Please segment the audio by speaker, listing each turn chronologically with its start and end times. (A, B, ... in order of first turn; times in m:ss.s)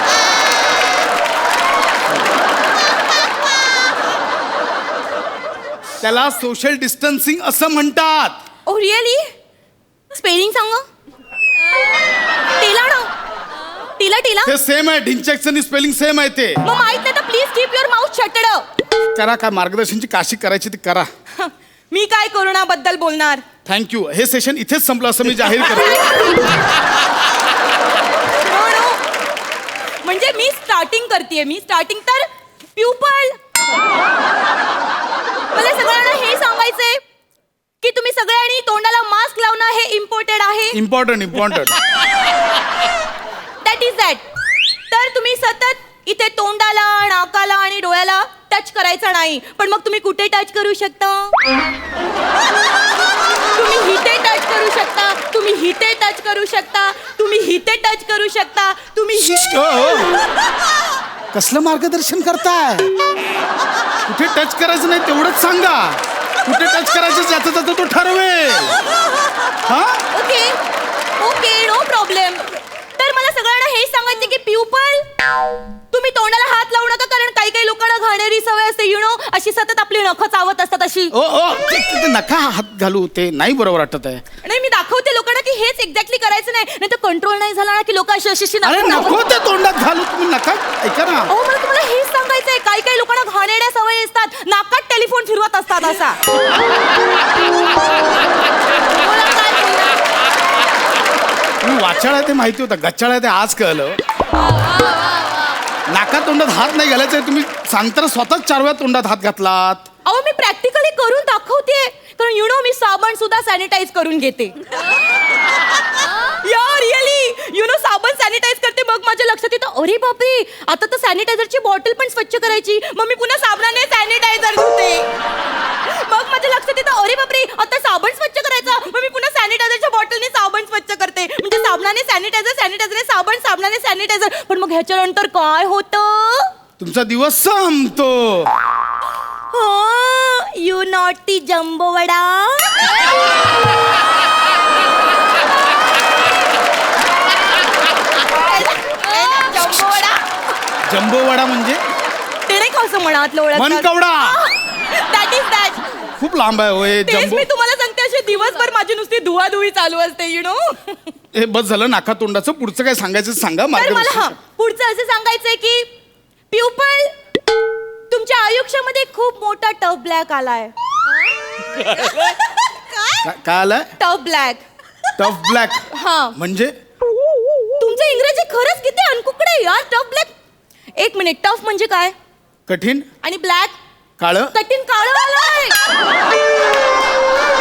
0:06.0-0:08.4 A
0:08.6-0:09.3 B
0:10.1-0:10.8 B
0:12.6-0:13.1 B
0:14.0-0:14.5 B
0:14.4-0:16.6 A
0:16.6-0:18.6 B
0:19.1-0:21.1 A
0:21.4-0:23.4 B
0:23.6-0:26.1 A
0:25.8-0:26.4 B
0:28.3-0:29.0 B
0:30.0-0:33.4 B
0:35.5-0:37.0 B
0:37.8-0:40.8 B
0:40.7-0:41.8 A
0:43.6-0:44.2 B
0:44.9-0:51.3 B
0:53.5-0:59.8 B
0:59.3-1:00.1 A
1:01.3-1:02.9 A
1:04.1-1:08.8 A
1:09.6-1:10.0 A
1:10.1-1:10.6 B
1:11.2-1:15.0 B
1:15.9-1:21.1 B
1:21.1-1:24.2 A
1:24.4-1:29.3 B
1:28.6-1:31.3 A
1:31.3-1:36.2 B
1:38.9-1:40.0 B
1:41.6-1:44.0 A
1:44.4-1:45.4 B
1:45.9-1:49.9 A
1:50.0-1:54.8 B
1:56.3-2:05.1 B
2:05.8-2:16.5 B
2:16.8-2:18.5 A
2:19.5-2:23.2 B
2:28.3-2:30.2 B
2:30.9-2:31.8 A
2:32.5-2:36.0 B
2:33.5-2:34.4 A
2:36.2-2:37.5 A
2:37.0-2:41.0 B
2:41.3-2:44.4 A
2:43.7-2:45.9 B
2:46.5-2:47.1 B
2:48.1-2:50.7 B
2:51.8-2:52.3 B
2:53.2-2:53.9 A
2:54.0-2:54.6 B
2:55.2-2:56.7 A
2:55.9-2:56.4 B
2:57.8-3:00.3 B
3:01.0-3:02.1 B
3:02.7-3:03.0 A
3:03.2-3:03.8 B
3:04.2-3:04.5 A
3:04.5-3:05.8 B